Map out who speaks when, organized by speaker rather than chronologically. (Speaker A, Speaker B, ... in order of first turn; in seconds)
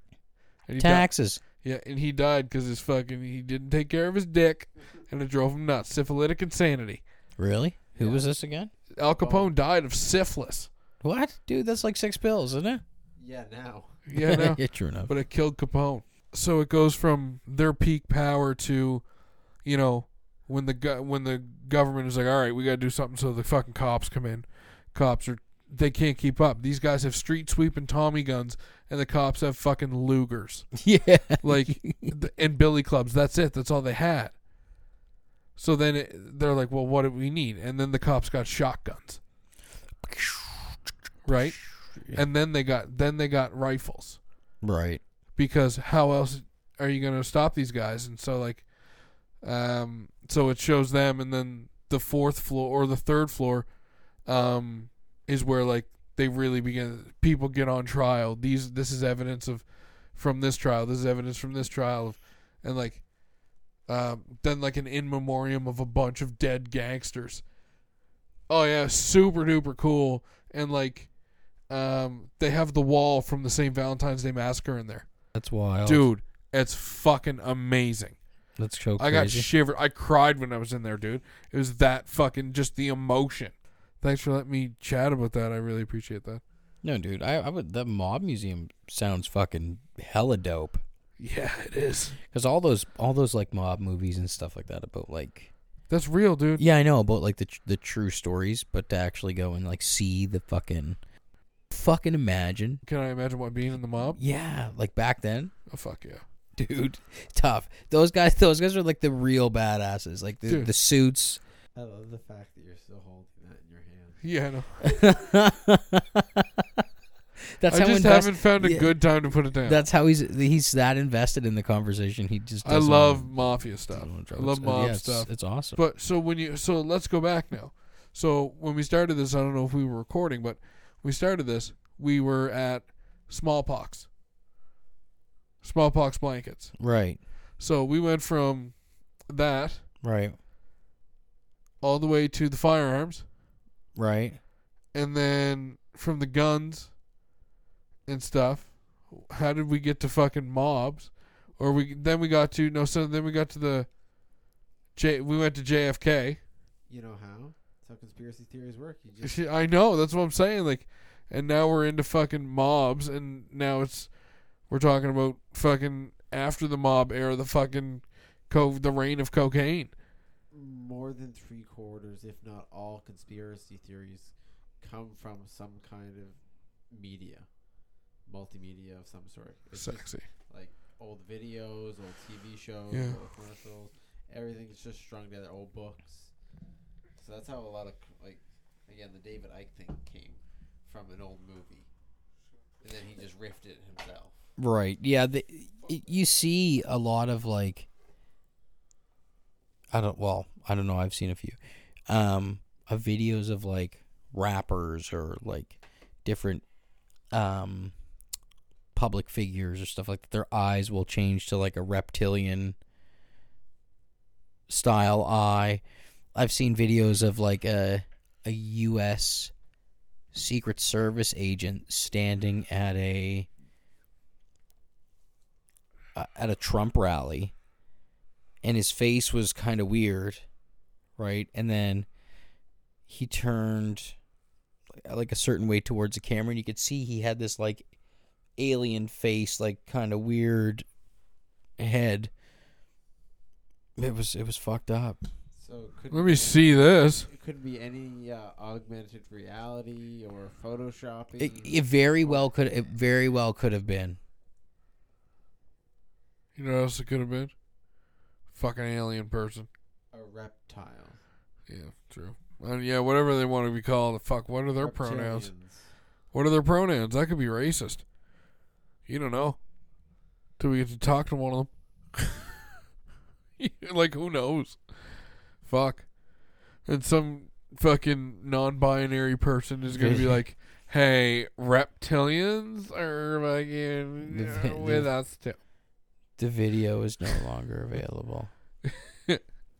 Speaker A: 0.7-7.0, 8.9-10.7, 14.1-19.0, 19.6-30.8, 31.4-34.3, 35.5-39.2, 41.2-44.2, 45.4-48.7, 49.4-53.7, 54.2-63.1, 63.9-67.4, 68.5-75.1, 75.8-78.2, 79.0-86.4, 91.2-92.2, 95.9-96.6, 102.8-104.2, 105.7-106.2, 114.2-114.9, 117.7-119.8, 122.6-134.1, 135.6-136.8, 137.6-139.8, 141.8-143.2, 144.9-146.9, 148.1-153.9, 154.9-156.4, 159.2-169.9, 179.7-180.3, 182.9-183.2, 246.1-247.3, 256.6-257.5, 258.5-259.7, 261.7-265.5, 266.3-268.0, 269.1-269.6, 270.6-271.7, 273.6-275.1, 275.6-285.6, 288.8-289.4
Speaker B: 0.8-1.4, 7.4-8.7, 11.0-12.8, 14.1-15.1, 30.8-32.1, 40.0-40.8, 42.0-42.2, 44.6-45.0, 75.3-76.0, 78.6-79.5, 86.8-90.8, 92.2-95.5, 96.6-101.0, 101.7-102.8, 104.1-105.5, 106.5-111.4, 114.8-116.8, 117.5-119.0, 119.6-125.8, 136.8-137.2, 140.0-140.3, 143.9-144.4, 194.6-197.9, 199.9-206.6, 207.3-207.9, 208.9-212.8, 214.7-215.8, 216.3-219.5, 220.3-223.5, 226.1-227.5, 228.6-230.4, 231.2-232.1, 233.1-234.2, 234.9-237.9, 238.6-240.8, 241.8-242.3, 244.0-245.2, 251.4-254.2, 279.9-280.4, 284.3-285.1, 286.4-288.5
Speaker C: 7.9-8.3, 9.1-9.5, 13.2-14.0, 111.7-114.2, 156.9-159.4, 170.5-177.7, 178.2-186.3, 187.2-191.9, 192.8-194.3, 245.6-252.5, 260.1-261.2, 264.8-265.9